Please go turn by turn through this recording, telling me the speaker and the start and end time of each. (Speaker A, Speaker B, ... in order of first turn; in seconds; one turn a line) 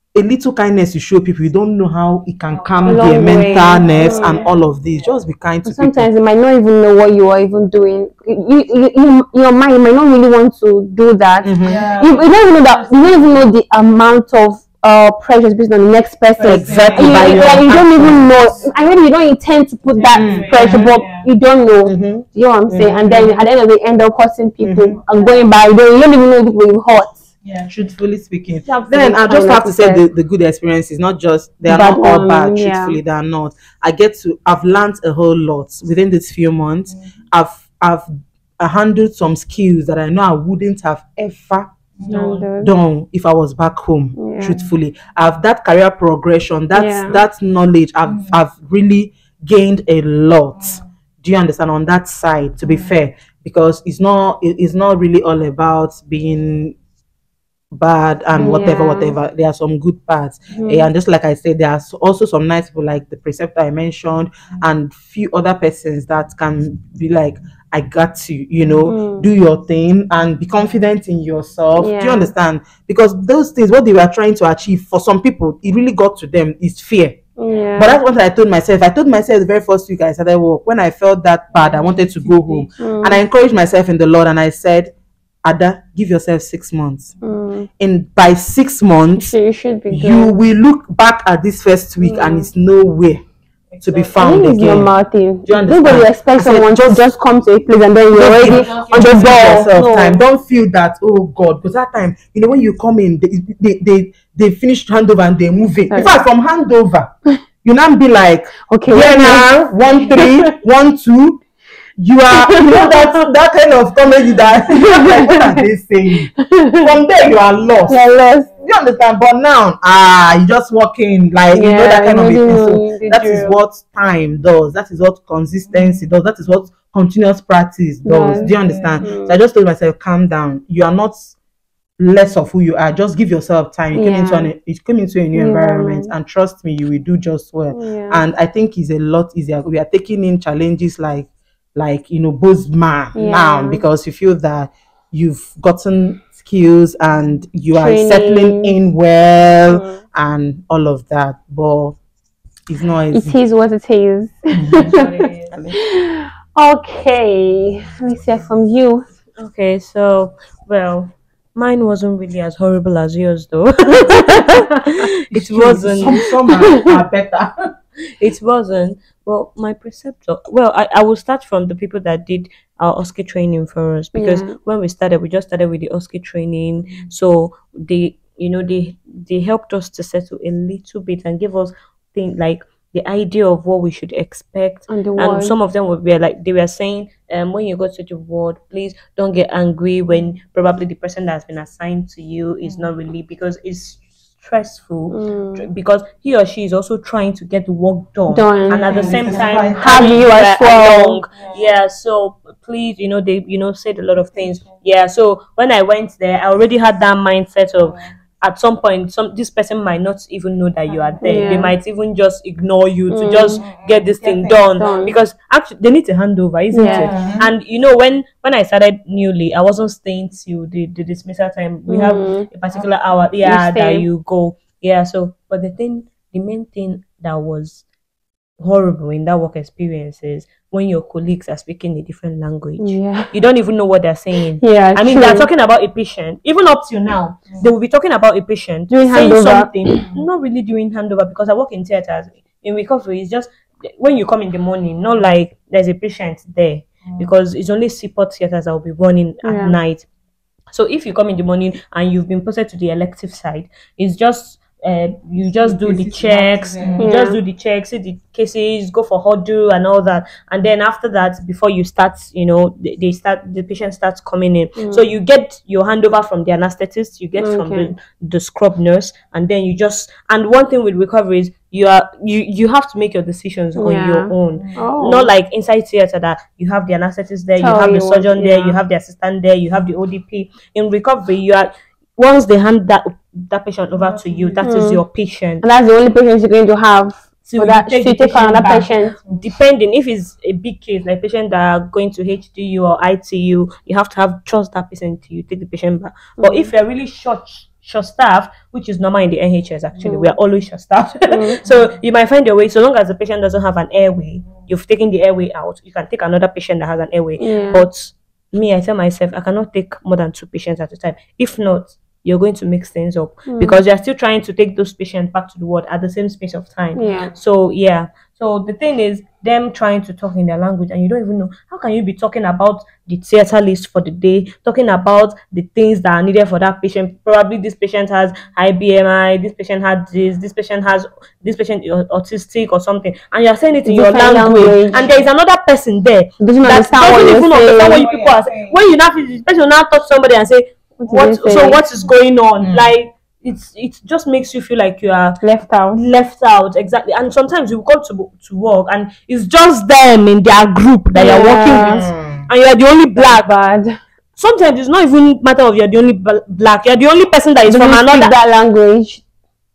Speaker A: 0.1-6.1
Speaker B: 2.5-5.2
Speaker C: 2.9-4.5
Speaker C: 5.7-27.2
Speaker A: 11.4-11.8
Speaker B: 11.6-13.5
Speaker B: 16.4-18.8
Speaker A: 16.5-18.5
Speaker B: 19.9-21.3
Speaker A: 20.1-20.9
Speaker A: 21.9-23.3
Speaker A: 24.6-25.0
Speaker B: 25.1-25.4
Speaker B: 27.4-27.7
Speaker A: 27.7-56.8
Speaker C: 28.8-30.0
Speaker C: 31.7-33.0
Speaker B: 42.0-42.5
Speaker C: 42.1-42.7
Speaker C: 44.2-44.6
Speaker B: 44.4-44.7
Speaker C: 46.7-47.2
Speaker B: 48.0-48.4
Speaker B: 50.5-50.9
Speaker B: 52.6-52.9
Speaker A: 57.7-77.2
Speaker C: 58.4-59.1
Speaker C: 60.5-60.9
Speaker C: 68.9-69.3
Speaker C: 71.8-72.3
Speaker C: 77.4-78.0
Speaker A: 77.8-84.9
Speaker B: 81.5-82.7
Speaker C: 82.8-83.2
Speaker A: 85.4-87.1
Speaker C: 87.2-87.7
Speaker A: 87.8-89.3
Speaker C: 89.2-90.4
Speaker A: 89.9-93.2
Speaker C: 92.0-92.5
Speaker B: 93.7-94.2
Speaker A: 93.8-94.9
Speaker C: 94.2-100.2
Speaker A: 95.5-97.1
Speaker A: 98.1-107.1
Speaker B: 98.2-100.0
Speaker C: 105.9-106.2
Speaker A: 107.6-111.4
Speaker C: 108.7-109.5
Speaker C: 110.1-110.5
Speaker A: 112.0-118.0
Speaker C: 112.3-113.2
Speaker C: 114.8-115.6
Speaker C: 116.4-116.9
Speaker B: 117.6-117.9
Speaker C: 117.9-118.5
Speaker A: 118.6-131.3
Speaker C: 121.5-123.6
Speaker B: 125.7-126.1
Speaker C: 128.0-129.4
Speaker B: 128.3-129.0
Speaker A: 132.0-152.0
Speaker C: 133.9-134.5
Speaker C: 135.3-136.1
Speaker C: 137.7-138.2
Speaker C: 143.2-143.8
Speaker C: 147.8-148.8
Speaker C: 149.7-150.0
Speaker A: 152.7-153.4
Speaker C: 153.1-155.3
Speaker A: 154.5-154.9
Speaker D: 154.9-155.3
Speaker B: 154.9-155.3
Speaker A: 155.5-155.8
Speaker C: 155.9-159.1
Speaker D: 159.4-166.2
Speaker A: 165.3-167.5
Speaker C: 166.5-167.0
Speaker D: 168.2-227.8
Speaker C: 174.2-174.6
Speaker C: 184.9-185.5
Speaker B: 192.6-192.9
Speaker C: 195.1-195.7
Speaker C: 198.3-199.0
Speaker B: 198.7-199.8
Speaker A: 198.8-200.2
Speaker C: 199.8-201.2
Speaker B: 201.3-201.8
Speaker B: 204.4-204.7
Speaker B: 210.9-211.6
Speaker C: 211.2-211.7
Speaker C: 213.1-213.6
Speaker B: 213.6-215.1
Speaker C: 214.8-215.1
Speaker C: 216.7-217.1
Speaker B: 216.8-217.4
Speaker A: 217.1-217.5
Speaker C: 221.9-222.5
Speaker C: 223.4-224.1
Speaker D: 228.6-250.1
Speaker C: 232.8-233.3
Speaker C: 234.6-235.5
Speaker C: 238.9-240.1
Speaker B: 247.1-247.3
Speaker C: 249.4-249.8
Speaker D: 250.7-285.6
Speaker B: 255.4-257.1
Speaker C: 257.0-257.4
Speaker C: 264.8-265.1
Speaker C: 267.4-267.9
Speaker C: 273.8-275.3
Speaker B: 274.5-274.9
Speaker C: 277.6-278.8
Speaker B: 284.0-284.7
Speaker C: 284.6-285.0
Speaker C: 285.6-289.1
Speaker D: 287.5-345.4
Speaker B: 288.6-289.5
Speaker C: 296.4-296.7
Speaker C: 300.0-300.3
Speaker C: 301.3-301.6
Speaker C: 307.4-307.9
Speaker C: 313.5-313.8
Speaker C: 316.9-317.3
Speaker C: 333.9-335.0
Speaker B: 334.9-335.2
Speaker C: 336.4-338.1
Speaker B: 337.0-338.8
Speaker C: 341.0-341.8
Speaker A: 342.6-342.9
Speaker C: 345.4-346.0
Speaker D: 345.9-353.5
Speaker C: 351.1-352.1
Speaker A: 351.9-352.5
Speaker C: 353.1-354.0
Speaker D: 354.4-358.3
Speaker C: 357.7-359.2